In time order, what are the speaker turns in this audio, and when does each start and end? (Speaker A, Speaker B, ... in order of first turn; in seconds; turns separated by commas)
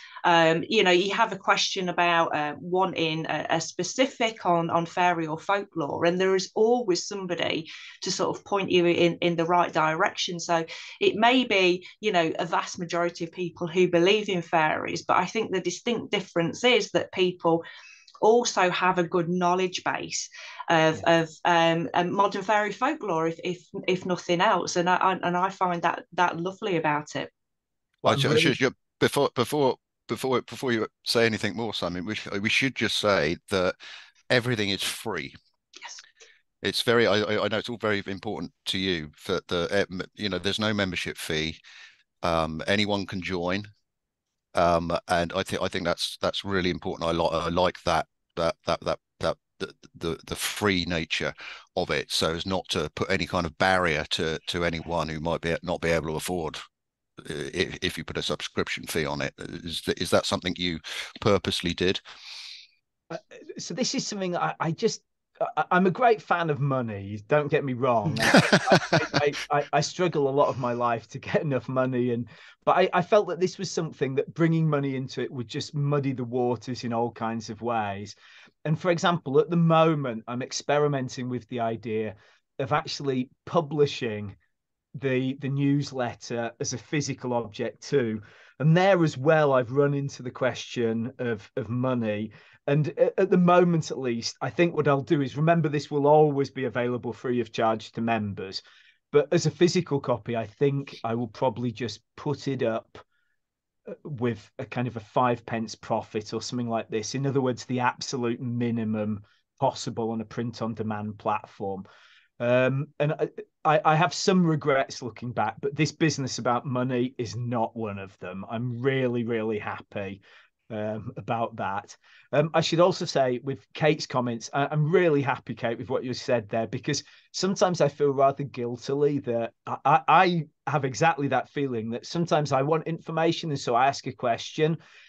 Speaker A: 0.2-17.6, Speaker A: 18.2-27.3, Speaker B: 28.0-28.6, Speaker C: 28.1-33.7, Speaker C: 34.3-35.3, Speaker C: 36.6-41.6, Speaker C: 42.2-43.7, Speaker C: 44.5-56.6, Speaker C: 57.2-62.0, Speaker B: 63.1-84.4, Speaker C: 68.3-69.1, Speaker B: 85.0-98.6, Speaker B: 99.1-103.0, Speaker B: 103.9-111.8, Speaker B: 112.4-134.8